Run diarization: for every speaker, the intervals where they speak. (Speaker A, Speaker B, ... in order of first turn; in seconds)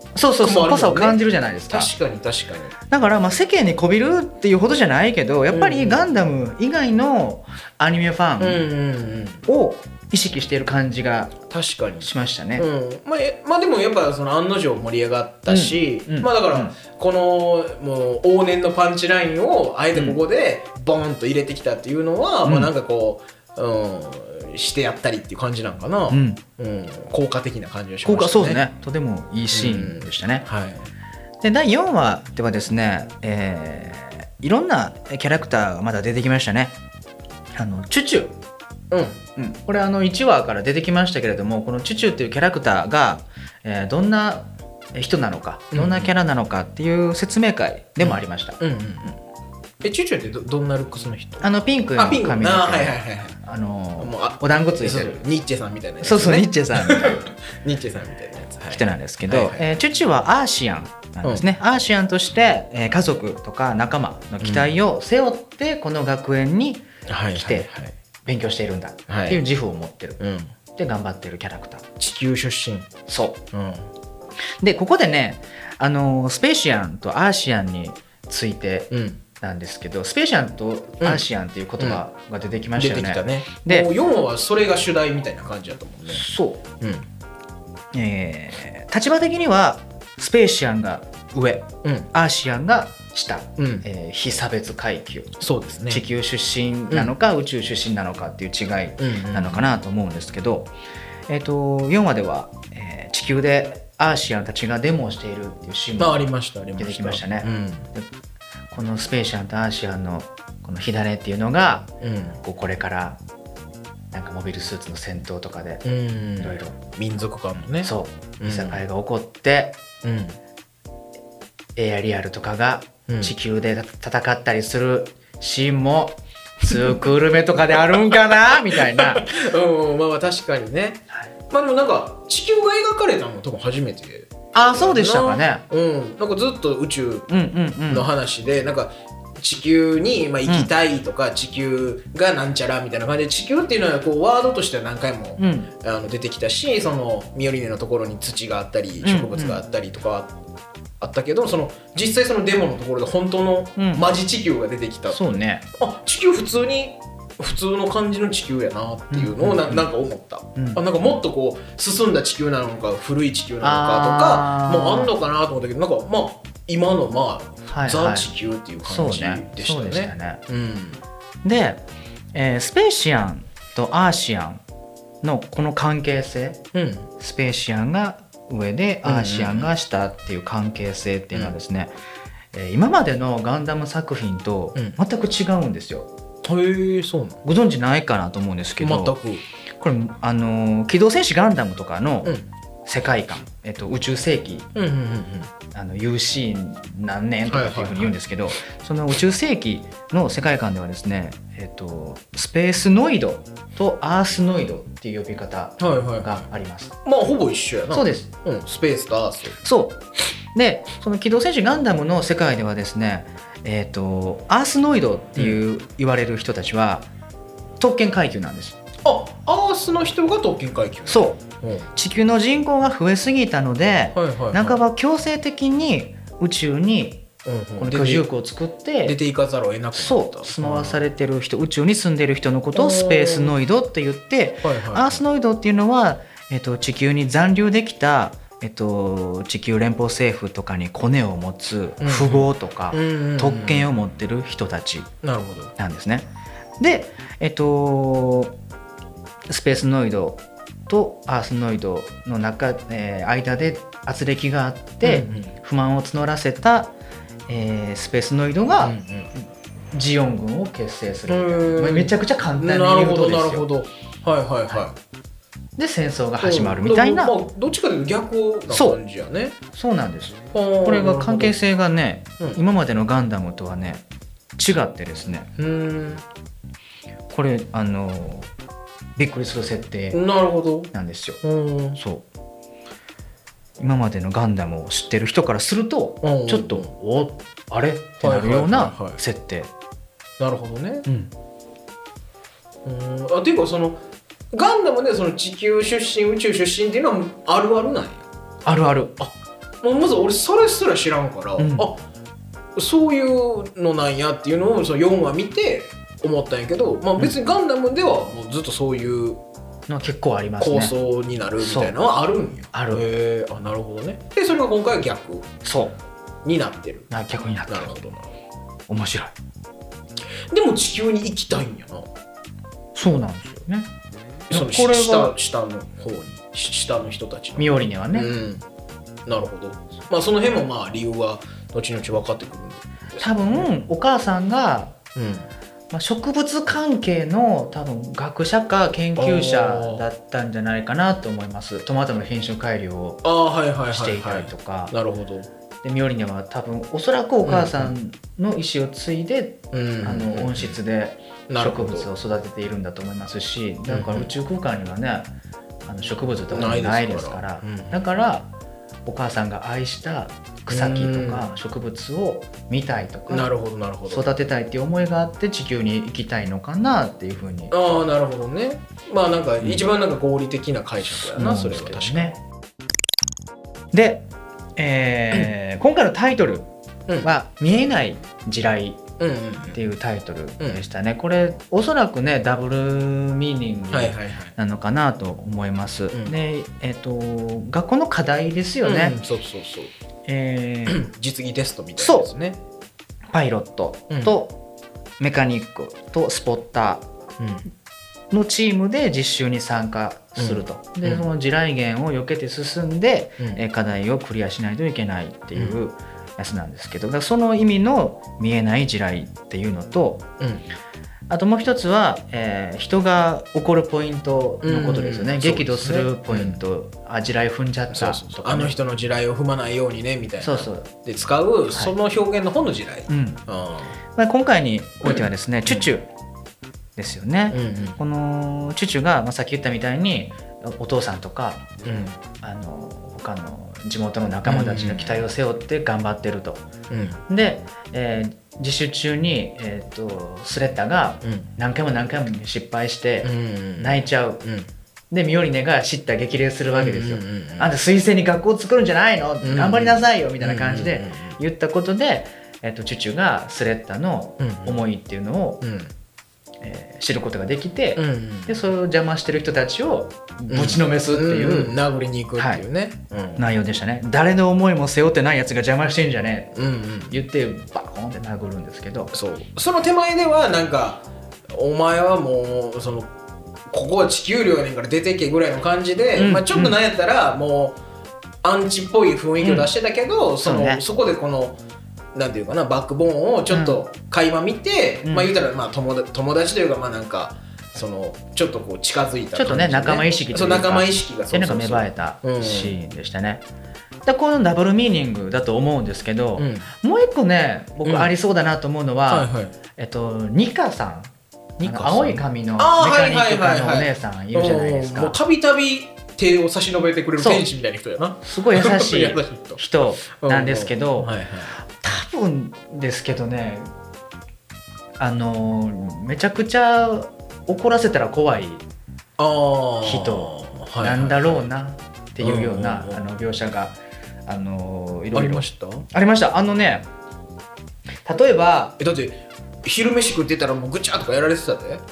Speaker A: 0.1-1.9, 2.9-8.6, 9.5-11.3, 12.0-12.7, 15.5-16.8, 19.9-20.2, 22.4-22.7, 26.1-26.4, 28.0-30.5, 31.4-36.8, 37.5-38.3, 39.4-48.6, 51.4-55.2, 56.0-57.3, 58.7-67.7, 68.2-70.2, 70.8-71.8, 73.1-73.4, 74.6-83.9, 86.1-86.6, 87.9-95.4, 95.9-100.7, 101.3-108.1, 108.7-111.9, 112.4-113.2, 114.1-115.8, 116.4-116.8, 117.8-119.8, 121.8-129.3, 134.5-135.6, 137.3-138.1, 145.4-145.7, 149.0-149.6, 153.8-154.1, 155.1-155.7, 159.1-159.9, 160.6-160.8, 163.6-165.1, 167.7-168.3, 168.8-170.4, 171.4-171.8, 172.3-174.6, 175.2-176.6, 177.2-181.9, 182.5-186.1, 187.4-189.2, 189.8-194.7, 195.7-207.0, 207.9-208.3, 209.6-210.0, 210.5-217.1, 217.8-218.8, 221.1-221.4, 221.9-227.3, 227.8-229.2, 229.9-245.1, 245.8-246.3, 246.8-248.5, 249.5-256.9, 257.5-263.7, 265.8-267.4, 268.7-269.0, 269.7-274.0, 274.6-275.5, 277.3-278.5, 279.2-280.2, 280.9-281.4, 281.9-282.2, 283.8-289.7, 291.1-291.3, 298.6-299.2, 301.6-301.9, 309.9-310.9, 311.6-312.0, 312.7-313.1, 315.6-316.0, 317.1-318.1, 318.9-319.3, 322.9-323.9, 324.5-325.3, 327.6-328.3, 333.2-334.9, 335.9-343.2, 343.9-344.9, 345.8-355.3, 355.9-358.5, 359.1-363.5, 364.1-367.8, 369.6-369.9, 371.2-372.4, 373.9-374.2, 374.8-376.7, 377.2-379.0, 379.7-389.2, 390.3-391.1, 392.0-392.3, 393.3-394.6, 395.2-397.1, 398.3-410.2, 411.3-418.7, 420.4-420.9, 423.1-423.4, 424.1-426.1, 427.0-431.7, 432.4-436.6, 437.3-444.4, 445.1-455.6, 456.6-461.7, 462.4-462.6, 463.4-466.6, 467.1-469.1, 476.1-476.8, 479.4-479.7, 480.4-480.9, 483.5-483.8, 485.1-485.3, 489.3-493.4, 494.1-505.2, 507.2-507.4, 508.2-511.1, 511.6-513.7, 515.0-518.6, 519.8-526.9, 528.0-528.8
Speaker B: 0.4-2.7, 5.5-6.0, 8.4-9.4, 11.5-28.6, 29.5-30.9, 38.9-39.2, 45.7-46.1, 48.0-49.2, 49.8-53.4, 54.0-59.6, 64.4-64.7, 67.1-68.0, 69.1-69.4, 70.2-70.5, 72.0-72.9, 73.5-73.9, 78.9-79.2, 81.0-81.3, 82.8-86.2, 86.8-87.1, 93.6-93.9, 95.4-96.0, 99.0-99.7, 106.0-107.9, 112.0-112.4, 115.8-118.8, 120.0-120.4, 123.1-123.3, 126.7-127.0, 127.7-137.3, 137.9-150.4, 151.0-155.2, 155.7-171.0, 176.7-177.1, 179.0-179.7, 186.4-187.4, 188.8-189.4, 192.2-192.5, 194.8-195.5, 197.5-198.1, 205.8-206.5, 207.1-209.6, 219.0-221.9, 224.1-224.8, 227.4-228.3, 229.1-231.0, 232.7-233.6, 234.6-235.2, 242.0-243.9, 245.2-245.7, 255.0-255.5, 258.8-259.3, 261.3-264.9, 266.4-269.6, 270.5-271.6, 275.6-276.2, 280.1-282.0, 286.2-286.9, 288.2-289.2, 290.4-291.1, 292.9-294.0, 294.5-298.3, 299.8-302.0, 302.8-309.4, 310.6-315.5, 316.4-317.1, 317.7-318.3, 320.5-322.1, 324.5-328.6, 329.3-333.8, 335.2-335.5, 339.2-340.1, 343.2-345.5, 347.4-347.9, 349.7-350.8, 351.5-352.1, 353.9-354.3, 356.5-358.0, 360.7-361.5, 363.3-364.3, 367.7-372.3, 379.2-379.8, 383.9-384.5, 388.8-389.9, 390.9-392.6, 394.1-394.4, 397.4-397.7, 400.4-401.2, 410.4-410.7, 414.6-416.6, 417.9-424.0, 425.1-425.9, 427.5-428.0, 431.8-432.2, 434.4-435.3, 436.9-437.2, 441.2-441.5, 443.2-444.7, 446.7-447.7, 449.4-451.4, 454.4-454.9, 455.6-455.9, 458.0-458.6, 460.5-463.4, 466.6-467.2, 469.1-473.1, 473.7-477.8, 478.4-481.6, 482.1-492.8, 496.4-496.7, 497.8-498.1, 499.1-499.6, 501.6-509.6, 510.2-511.6, 519.2-521.5, 522.2-523.0, 525.1-525.9, 528.8-531.8